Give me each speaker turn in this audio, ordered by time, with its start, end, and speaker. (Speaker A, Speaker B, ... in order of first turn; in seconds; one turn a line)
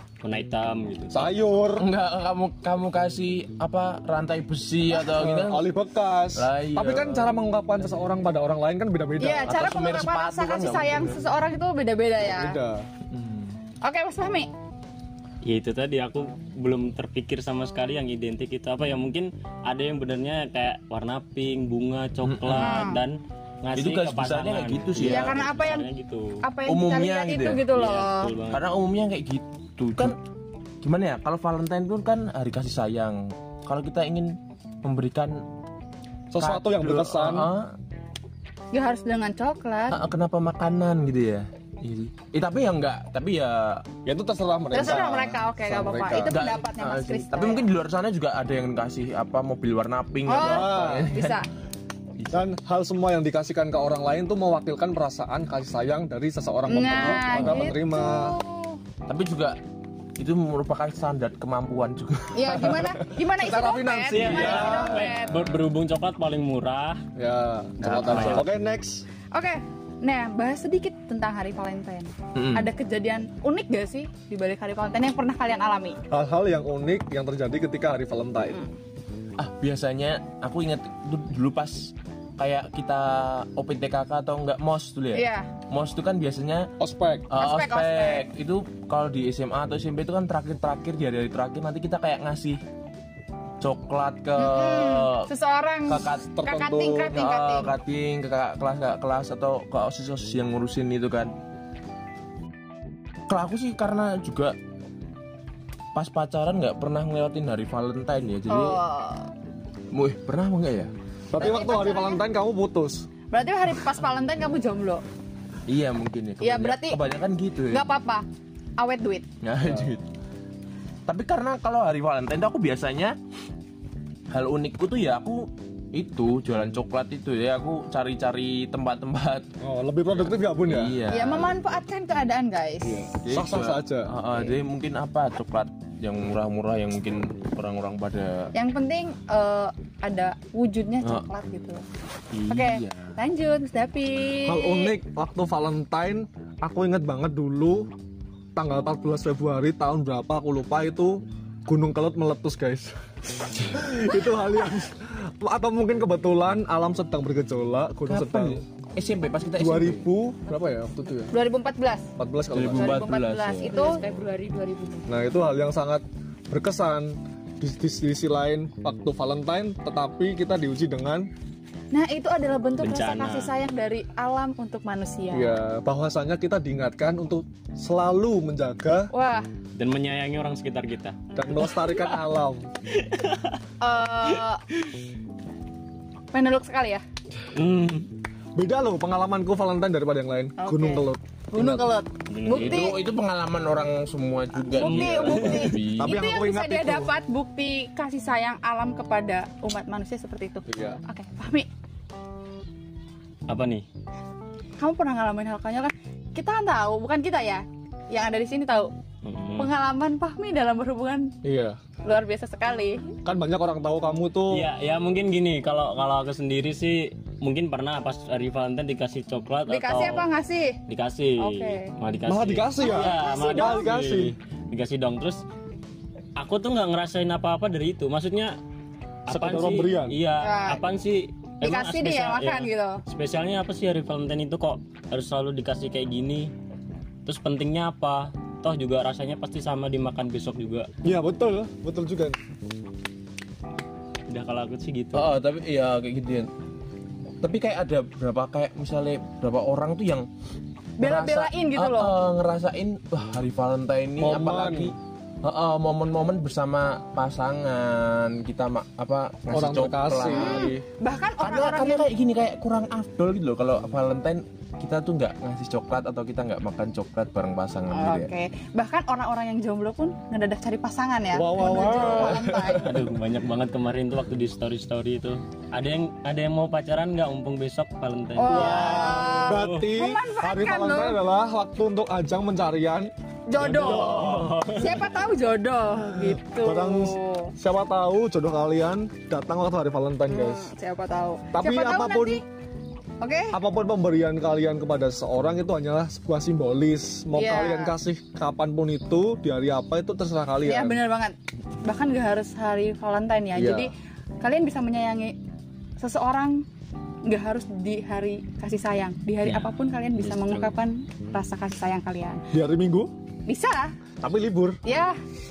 Speaker A: 0.2-1.3
Speaker B: 1.1-1.9
Speaker C: 1.8-5.6
Speaker B: 5.0-9.5
Speaker C: 6.3-7.3
Speaker D: 9.2-12.6
Speaker C: 9.4-11.2
Speaker B: 12.2-12.9
Speaker C: 13.1-13.5
Speaker D: 13.8-14.5
Speaker A: 15.4-26.3
Speaker C: 22.2-22.8
Speaker D: 22.5-23.0
Speaker C: 23.7-25.4
Speaker D: 25.0-25.9
Speaker D: 26.4-28.3
Speaker C: 26.6-27.7
Speaker A: 27.7-28.6
Speaker C: 28.5-30.1
Speaker C: 30.8-35.4
Speaker B: 36.3-37.5
Speaker C: 36.4-37.7
Speaker D: 38.7-40.0
Speaker C: 39.9-43.8
Speaker B: 44.0-46.4
Speaker D: 44.7-47.7
Speaker C: 46.3-51.4
Speaker D: 50.2-51.4
Speaker B: 50.4-51.1
Speaker C: 52.2-52.4
Speaker B: 52.3-58.4
Speaker D: 56.7-58.8
Speaker C: 57.2-57.7
Speaker C: 59.1-59.6
Speaker C: 60.2-63.0
Speaker D: 62.3-65.5
Speaker B: 63.2-65.1
Speaker A: 64.1-67.0
Speaker C: 64.5-65.5
Speaker B: 67.2-69.0
Speaker C: 67.8-68.5
Speaker A: 67.8-68.5
Speaker D: 69.3-76.0
Speaker C: 72.3-72.7
Speaker B: 76.1-78.6
Speaker C: 79.4-86.7
Speaker D: 85.1-85.5
Speaker B: 86.8-87.3
Speaker C: 87.3-92.6
Speaker D: 87.3-88.2
Speaker C: 93.6-95.3
Speaker D: 94.4-97.7
Speaker C: 95.8-96.3
Speaker B: 96.0-97.2
Speaker C: 97.1-101.3
Speaker C: 103.3-104.5
Speaker C: 105.9-108.8
Speaker D: 108.5-109.3
Speaker C: 109.9-110.9
Speaker B: 111.3-113.0
Speaker D: 111.3-112.2
Speaker D: 113.3-115.0
Speaker C: 115.7-117.8
Speaker D: 116.4-117.0
Speaker D: 117.7-118.2
Speaker D: 118.8-119.2
Speaker C: 119.4-120.1
Speaker C: 121.0-123.2
Speaker C: 124.3-129.5
Speaker B: 129.6-131.0
Speaker C: 130.1-131.5
Speaker D: 131.1-133.1
Speaker B: 132.8-134.1
Speaker C: 133.2-138.5
Speaker D: 138.5-141.8
Speaker C: 142.3-143.1
Speaker D: 142.5-144.9
Speaker B: 144.4-147.9
Speaker B: 148.6-152.9
Speaker B: 153.5-158.6
Speaker C: 158.1-160.1
Speaker B: 159.6-161.3
Speaker D: 161.3-162.0
Speaker B: 162.2-163.1
Speaker C: 162.5-164.3
Speaker D: 162.7-165.1
Speaker B: 165.1-171.3
Speaker D: 171.9-175.6
Speaker A: 172.8-173.5
Speaker B: 175.3-179.1
Speaker D: 179.1-179.4
Speaker A: 179.8-182.2
Speaker B: 181.3-182.7
Speaker A: 183.0-183.6
Speaker D: 183.8-184.6
Speaker D: 186.3-187.0
Speaker A: 187.5-188.1
Speaker B: 188.5-191.9
Speaker D: 190.6-193.0
Speaker A: 192.3-192.9
Speaker C: 192.4-196.1
Speaker D: 194.6-201.7
Speaker A: 194.8-195.7
Speaker B: 196.0-197.1
Speaker B: 200.7-201.0
Speaker A: 203.5-203.8
Speaker D: 204.8-208.9
Speaker A: 209.2-209.7
Speaker D: 209.6-211.3
Speaker B: 211.4-211.8
Speaker D: 212.0-213.1
Speaker B: 213.2-214.7
Speaker A: 214.5-220.2
Speaker D: 219.7-220.8
Speaker A: 220.9-225.4
Speaker D: 221.4-221.9
Speaker B: 222.2-224.3
Speaker D: 222.8-223.9
Speaker A: 226.4-228.6
Speaker A: 229.3-236.5
Speaker B: 229.3-230.2
Speaker D: 230.4-230.8
Speaker D: 231.6-233.0
Speaker A: 237.2-240.9
Speaker B: 241.0-242.4
Speaker A: 244.3-245.3
Speaker C: 245.1-246.5
Speaker C: 247.4-250.3
Speaker D: 251.0-252.1
Speaker C: 251.0-260.8
Speaker B: 254.2-254.9
Speaker B: 259.5-260.7
Speaker D: 260.3-262.1
Speaker C: 261.4-268.3
Speaker D: 267.9-272.9
Speaker B: 271.3-272.5
Speaker C: 271.8-272.9
Speaker A: 272.8-279.9
Speaker D: 278.4-281.2
Speaker B: 278.5-283.1
Speaker D: 283.5-287.5
Speaker A: 283.6-285.1
Speaker B: 286.5-290.7
Speaker D: 290.3-292.4
Speaker B: 291.5-292.4
Speaker D: 293.2-293.5
Speaker B: 293.5-301.0
Speaker D: 297.3-297.9
Speaker D: 300.6-305.4
Speaker B: 303.5-303.9
Speaker D: 306.0-306.6
Speaker D: 307.2-312.4
Speaker A: 309.4-310.7
Speaker B: 312.5-313.1
Speaker D: 313.5-313.9
Speaker B: 314.2-314.8
Speaker D: 314.8-315.1